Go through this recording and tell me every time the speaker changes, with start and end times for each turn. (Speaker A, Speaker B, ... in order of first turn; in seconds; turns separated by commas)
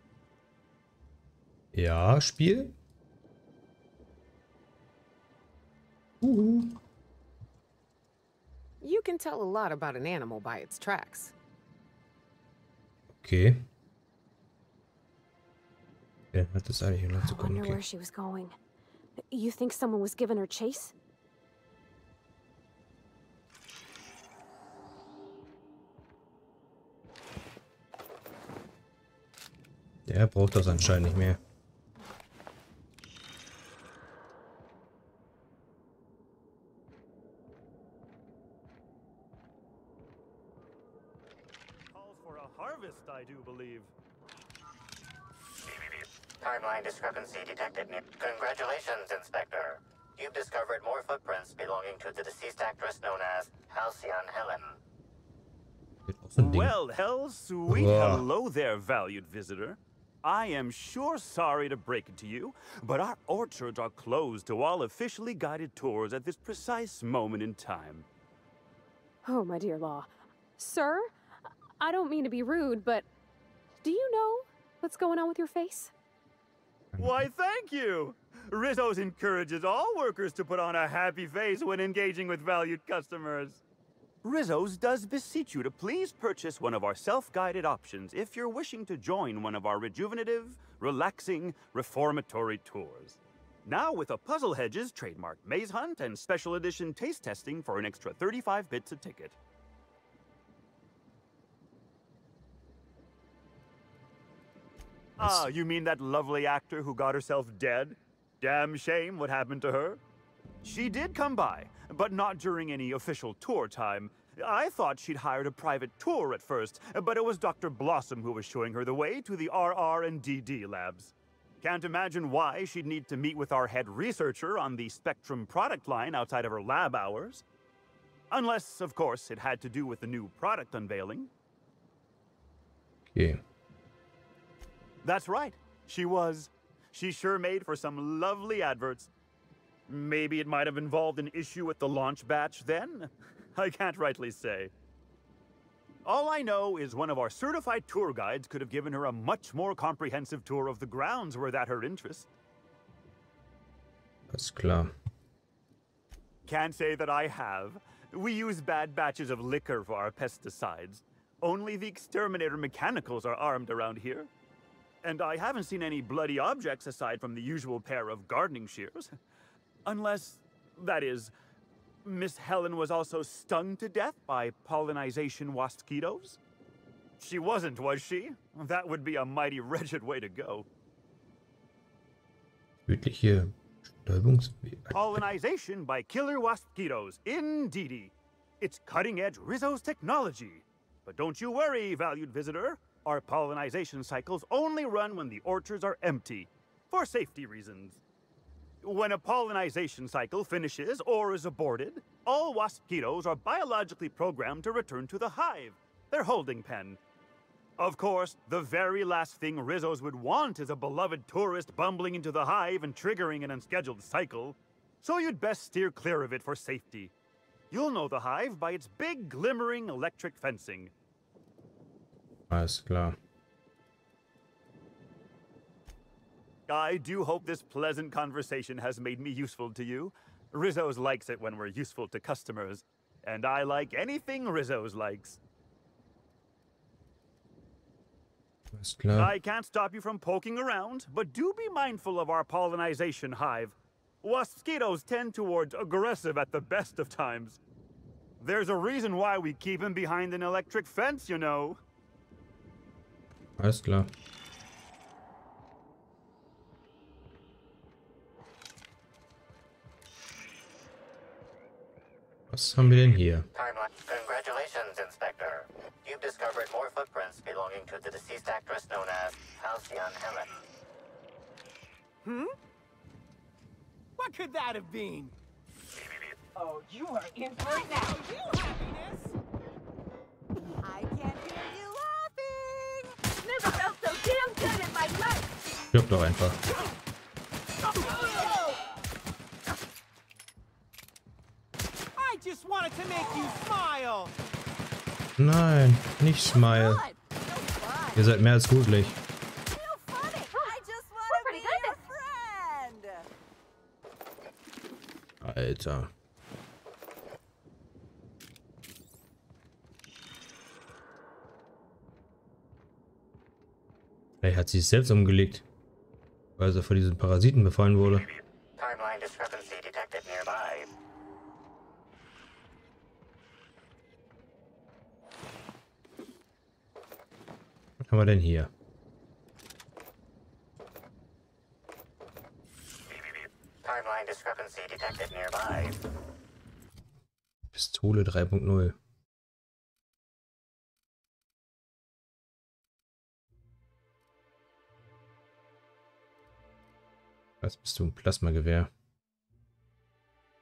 Speaker A: 1.7-2.7, Speaker A: 6.2-6.8, Speaker B: 8.8-11.3, Speaker A: 13.1-13.7, Speaker A: 16.3-17.8, Speaker C: 17.2-18.5, Speaker C: 19.2-20.9, Speaker A: 30.1-31.4, Speaker D: 41.9-43.9, Speaker E: 46.4-54.8, Speaker A: 56.0-56.7, Speaker D: 56.4-68.0, Speaker A: 57.7-58.3, Speaker C: 69.2-71.1, Speaker C: 71.8-73.1, Speaker C: 73.8-75.9, Speaker A: 76.9-77.2, Speaker D: 77.0-83.6, Speaker D: 84.2-99.4, Speaker D: 105.2-110.0, Speaker A: 105.2-105.5, Speaker D: 110.6-127.4, Speaker D: 128.3-131.3, Speaker A: 133.1-133.4, Speaker D: 135.0-139.1, Speaker D: 139.9-144.7, Speaker D: 146.0-152.3, Speaker A: 154.3-154.9, Speaker D: 156.4-164.3, Speaker D: 165.0-169.1, Speaker D: 169.8-171.3, Speaker D: 172.0-176.4, Speaker D: 177.2-180.7, Speaker A: 182.8-185.2, Speaker D: 184.9-198.0, Speaker D: 198.8-207.0, Speaker D: 207.8-217.1, Speaker D: 217.7-220.9, Speaker A: 222.5-223.2, Speaker D: 226.7-235.4, Speaker A: 238.7-239.3, Speaker D: 239.1-247.6, Speaker D: 248.4-251.8, Speaker A: 253.6-254.1, Speaker A: 262.5-263.5, Speaker E: 263.5-270.6, Speaker F: 272.2-272.5, Speaker F: 274.2-275.4, Speaker F: 276.6-279.4, Speaker G: 280.9-283.0, Speaker G: 283.5-285.4, Speaker A: 285.9-286.6, Speaker F: 287.8-288.8, Speaker G: 288.1-288.4, Speaker F: 292.1-294.3, Speaker G: 293.2-293.5, Speaker A: 295.4-297.1, Speaker G: 296.4-298.3, Speaker A: 298.1-299.1, Speaker G: 299.7-303.3, Speaker C: 301.3-302.0, Speaker A: 305.4-306.1, Speaker A: 314.4-315.6, Speaker A: 316.6-318.3, Speaker E: 318.8-320.9, Speaker A: 328.0-328.7, Speaker E: 333.4-336.0, Speaker A: 337.7-339.0, Speaker A: 347.6-348.9